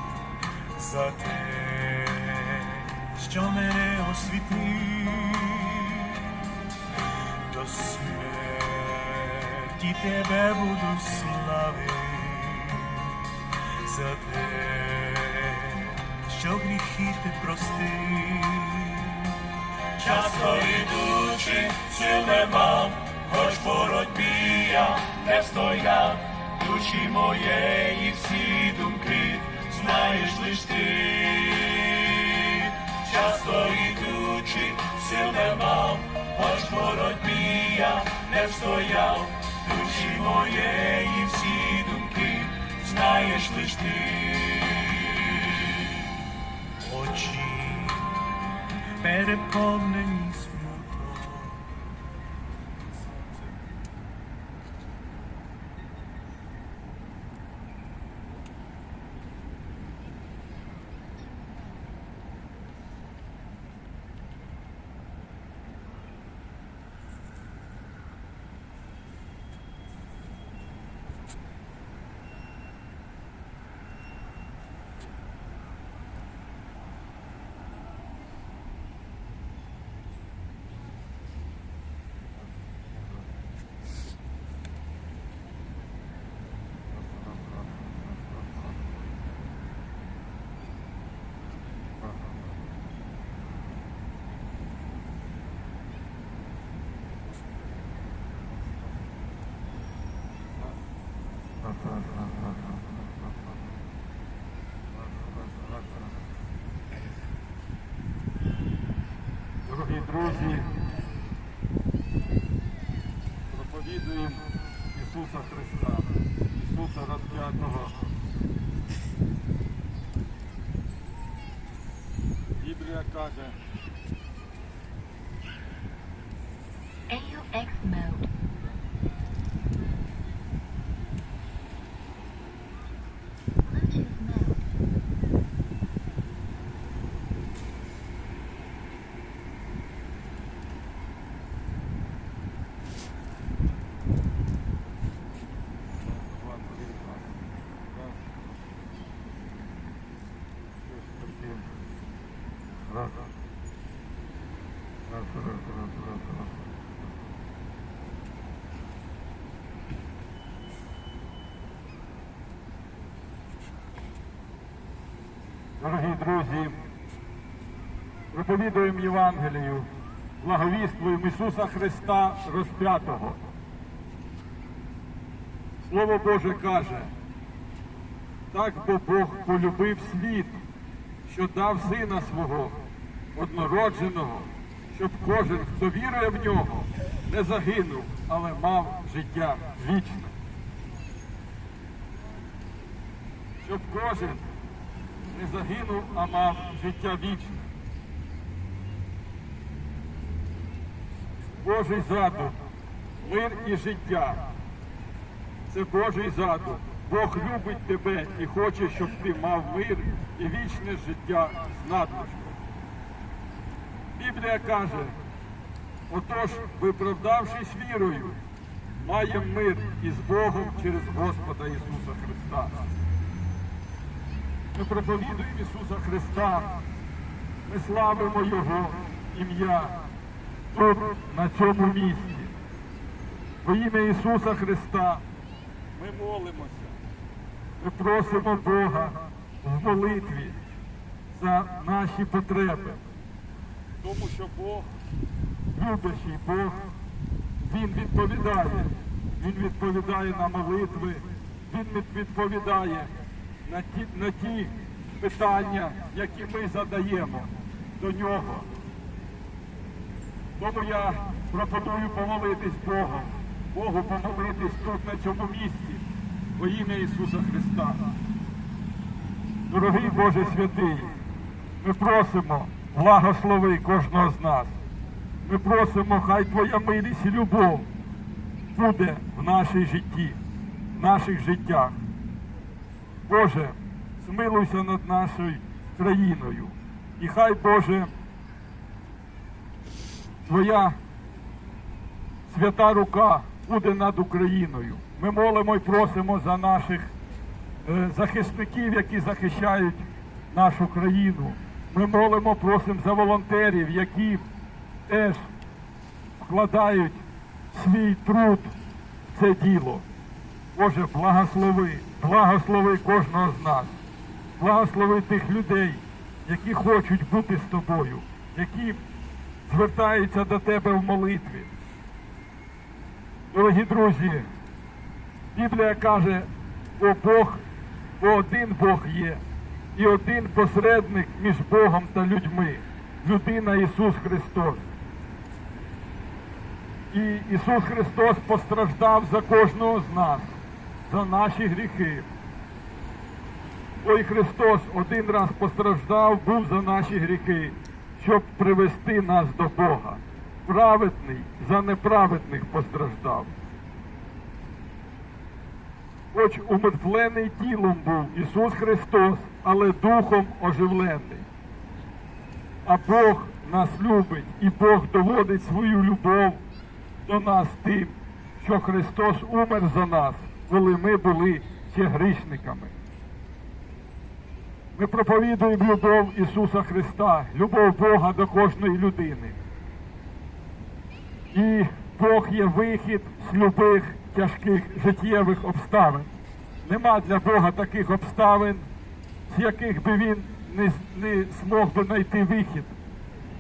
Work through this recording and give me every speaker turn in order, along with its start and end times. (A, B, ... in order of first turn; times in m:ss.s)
0:00.8-0:02.4 A
0:02.5-0:03.2 B
0:03.2-0:06.1 A
0:05.1-0:05.3 B
0:07.5-0:12.8 A
0:13.8-0:14.4 B
0:14.4-0:15.8 A
0:15.6-0:16.4 B
0:16.4-0:19.3 A
0:20.0-0:31.7 B
0:31.8-0:32.4 A
0:32.8-0:40.1 B
0:38.4-0:39.2 A
0:40.1-0:42.4 A
0:42.5-0:44.0 B
0:43.3-0:45.5 A
0:46.9-0:47.2 B
0:47.2-0:48.0 A
0:49.2-0:51.0 A
0:51.0-0:51.5 B
1:41.7-1:42.8 C
1:49.7-1:50.7 C
1:53.5-1:58.0 C
2:02.6-2:03.6 C
2:07.1-2:08.3 D
2:13.7-2:14.7 D
2:26.1-2:27.3 C
2:30.9-2:31.7 C
2:35.1-2:36.3 C
2:45.8-2:46.8 C
2:48.3-2:49.9 C
2:50.4-2:53.4 C
2:55.8-2:57.1 C
2:58.5-3:00.6 C
3:01.3-3:02.8 C
3:03.4-3:10.3 C
3:13.6-3:14.5 C
3:15.3-3:17.7 C
3:21.6-3:22.6 C
3:23.2-3:24.5 C
3:25.7-3:32.6 C
3:34.2-3:35.2 C
3:36.1-3:38.4 C
3:39.0-3:42.8 C
3:44.7-3:46.8 C
3:47.7-3:50.0 C
3:50.7-3:52.5 C
3:53.6-3:55.2 C
3:56.0-3:57.0 C
3:57.8-4:00.6 C
4:01.3-4:03.0 C
4:04.0-4:04.9 C
4:05.7-4:06.9 C
4:07.6-4:13.1 C
4:13.6-4:18.7 C
4:20.6-4:26.0 C
4:26.6-4:28.0 C
4:29.7-4:31.1 C
4:31.8-4:34.7 C
4:35.4-4:37.9 C
4:38.7-4:40.4 C
4:40.9-4:42.0 C
4:43.3-4:48.1 C
4:50.5-4:51.0 C
4:52.5-4:57.1 C
4:57.8-5:04.5 C
5:05.1-5:05.5 C
5:06.4-5:08.7 C
5:09.3-5:10.1 C
5:10.8-5:14.0 C
5:14.6-5:19.0 C
5:19.6-5:21.7 C
5:23.5-5:24.5 C
5:25.6-5:27.6 C
5:28.2-5:29.4 C
5:30.0-5:34.8 C
5:37.1-5:42.3 C
5:44.0-5:53.5 C
5:56.3-6:01.5 C
6:02.8-6:06.6 C
6:07.2-6:12.9 C
6:15.0-6:19.6 C
6:21.5-6:26.3 C
6:26.8-6:28.9 C
6:29.5-6:33.0 C